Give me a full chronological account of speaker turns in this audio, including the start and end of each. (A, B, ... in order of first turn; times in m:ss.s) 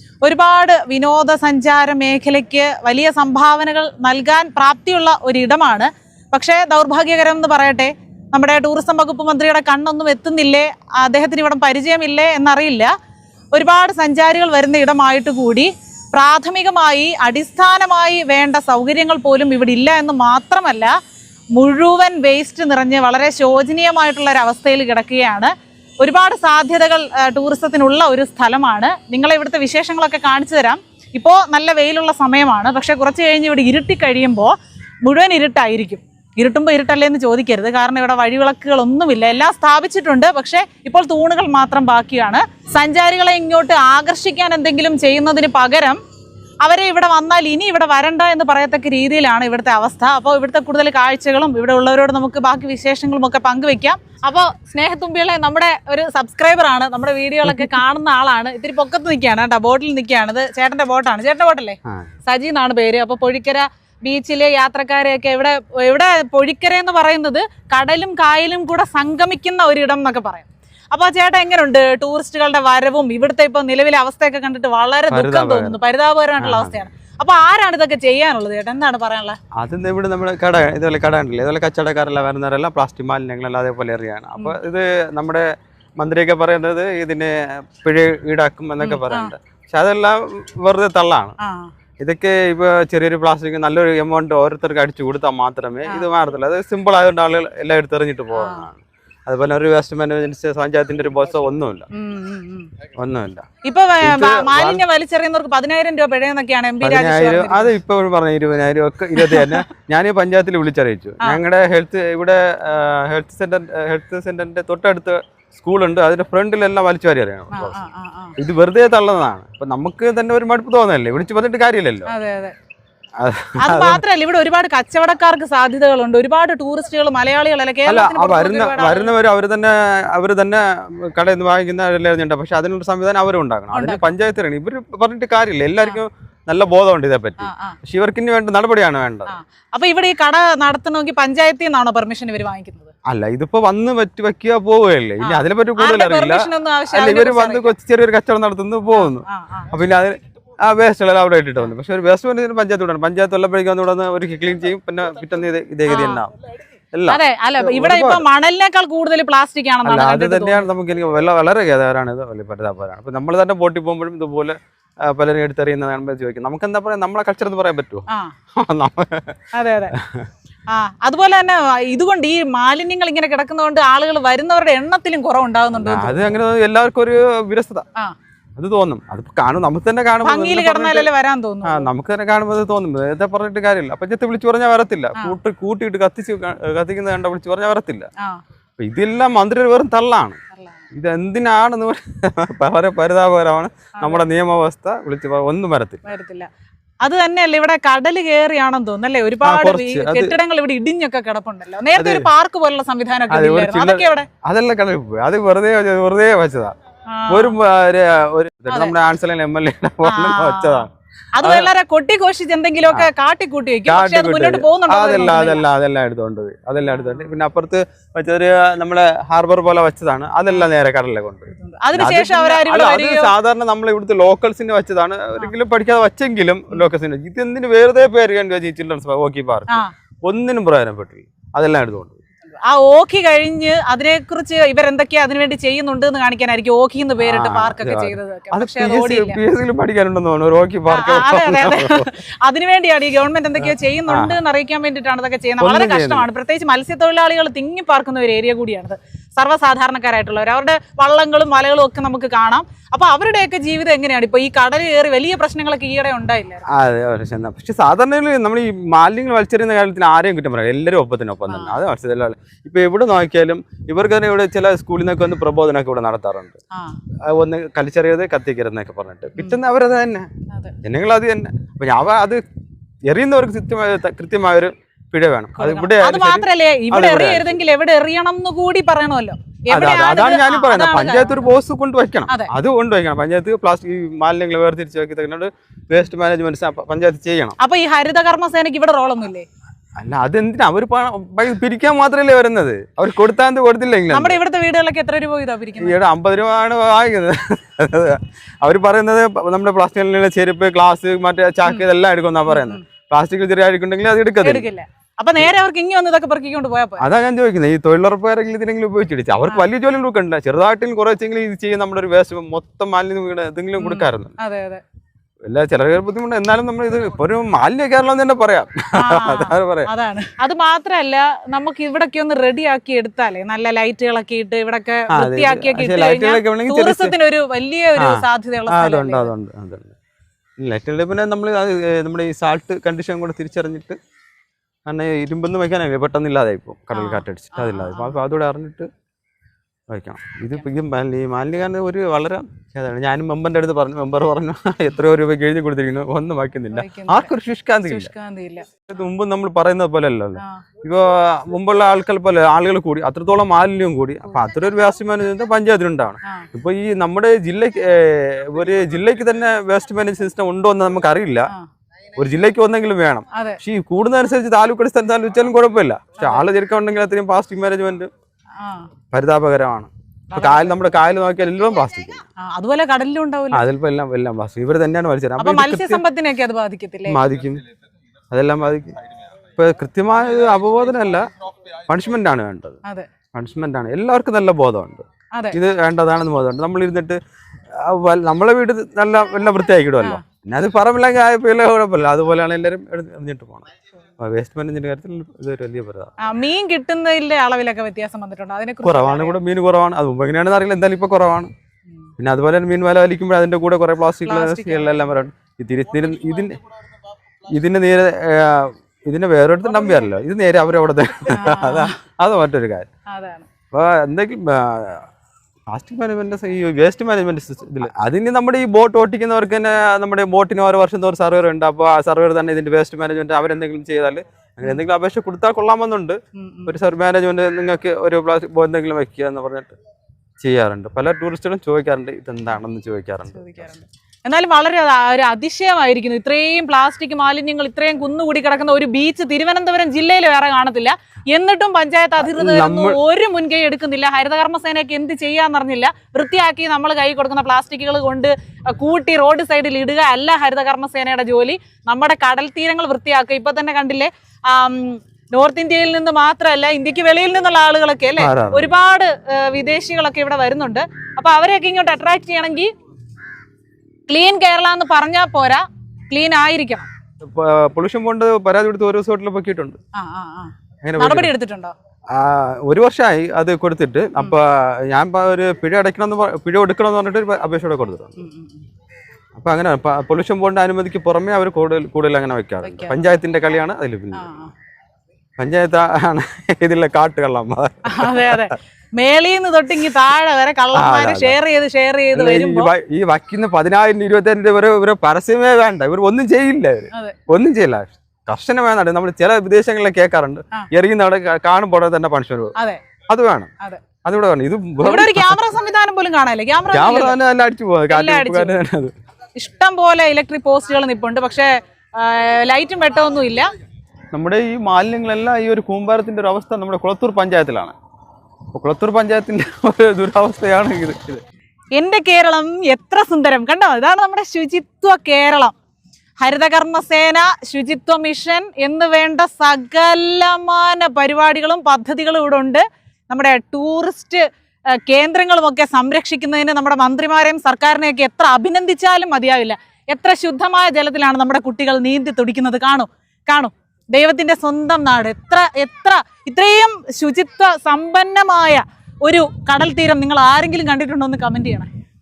0:00.2-0:12.9 A
0:13.5-0:20.9 A
0:21.6-0:46.0 A
0:46.6-1:19.4 A
0:57.4-0:57.8 B
1:15.1-1:15.8 B
1:16.4-1:16.8 B
1:19.6-1:25.5 B
1:26.0-1:31.4 B
1:28.8-1:29.3 A
1:31.4-1:31.7 A
1:32.0-1:41.9 B
1:38.3-1:38.7 A
1:41.9-1:42.7 A
1:43.0-1:43.5 B
1:43.6-1:47.8 A
1:44.0-1:44.8 B
1:46.8-1:57.8 B
1:49.2-1:49.6 A
1:57.5-1:58.3 A
1:58.4-2:02.1 B
2:02.1-2:02.5 A
2:03.2-2:04.0 B
2:03.6-2:09.2 A
2:07.8-2:19.3 B
2:13.7-2:14.1 A
2:17.4-2:17.8 A
2:19.3-2:22.9 A
2:23.1-2:36.3 B
2:25.2-2:27.7 A
2:28.9-2:29.7 A
2:35.9-2:36.2 A
2:36.9-2:38.3 B
2:37.1-2:40.7 A
2:39.8-2:50.3 B
2:48.1-2:48.3 A
2:49.5-2:49.9 A
2:50.7-2:56.3 A
2:55.7-2:57.8 B
2:58.6-3:01.1 B
3:00.2-3:01.9 A
3:01.6-3:08.1 B
3:08.8-3:10.4 B
3:10.5-3:10.8 A
3:10.9-3:16.0 B
3:14.0-3:14.2 A
3:16.0-3:16.5 A
3:17.0-3:24.3 A
3:19.4-3:20.4 B
3:21.9-3:22.3 B
3:23.3-3:26.7 B
3:27.1-3:27.5 A
3:27.3-3:31.7 B
3:28.7-3:28.9 A
3:30.0-3:35.7 A
3:33.8-3:52.2 B
3:36.9-3:37.3 A
3:41.5-3:43.3 A
3:52.6-3:59.4 A
3:57.2-4:02.1 B
4:00.9-4:16.6 A
4:03.6-4:04.4 B
4:05.6-4:06.3 B
4:16.7-4:26.6 B
4:21.5-4:21.7 A
4:26.7-4:27.0 A
4:27.2-4:30.3 B
4:30.8-4:32.4 B
4:33.1-4:37.6 B
4:35.6-4:41.5 A
4:39.7-4:47.6 B
4:47.6-4:49.4 A
4:50.0-4:54.4 B
4:54.1-4:56.0 A
4:55.8-5:04.7 B
5:02.5-5:02.8 A
5:04.4-5:07.0 A
5:07.0-5:14.3 B
5:13.8-5:14.8 A
5:15.4-5:19.9 B
5:19.0-5:29.3 A
5:25.1-5:27.1 B
5:28.0-5:29.9 B
5:30.6-5:34.0 B
5:34.8-5:38.9 B
5:36.9-5:38.2 A
5:39.9-5:48.1 B
5:46.7-5:47.3 A
5:47.9-5:48.7 A
5:48.9-6:01.5 B
5:50.4-5:50.6 A
6:02.2-6:08.1 B
6:03.3-6:03.6 A
6:06.2-6:06.4 A
6:08.6-6:08.9 A
6:09.1-6:12.2 B
6:10.3-6:10.9 A
6:12.4-6:13.6 A
6:13.5-6:16.0 B
6:15.4-6:17.2 A
6:17.1-6:17.6 B
6:18.3-6:19.0 B
6:19.5-6:22.8 B
6:23.3-6:27.2 B
6:27.7-6:33.6 B
6:34.2-6:36.1 B
6:36.2-6:39.4 A
6:38.8-6:41.5 B
6:42.2-6:46.6 B
6:44.2-6:45.1 A
6:47.4-6:52.9 B
6:51.3-6:52.0 A
6:53.1-6:53.5 A
6:53.7-6:55.1 B
6:55.7-7:09.7 B
7:06.4-7:06.7 A
7:10.4-7:13.7 B
7:13.3-7:42.7 A
7:22.2-7:23.0 B
7:38.2-7:38.7 B
7:44.1-7:46.9 A
7:47.2-7:49.8 B
7:49.9-7:51.7 A
7:50.8-7:51.3 B
7:52.1-7:58.2 B
7:58.2-7:58.6 A
7:59.4-8:04.3 B
8:02.6-8:03.0 A
8:04.1-8:04.5 A
8:05.4-8:08.5 B
8:07.9-8:12.7 A
8:10.7-8:11.4 B
8:12.1-8:22.5 B
8:16.9-8:17.2 A
8:22.6-8:22.8 A
8:23.1-8:23.5 B
8:24.0-8:25.4 B
8:24.8-8:27.2 A
8:26.7-8:28.9 B
8:27.9-8:28.6 A
8:29.4-8:33.5 A
8:34.1-8:37.7 B
8:38.5-8:41.2 B
8:41.8-8:45.5 A
8:46.2-8:54.2 A
8:54.9-9:11.7 A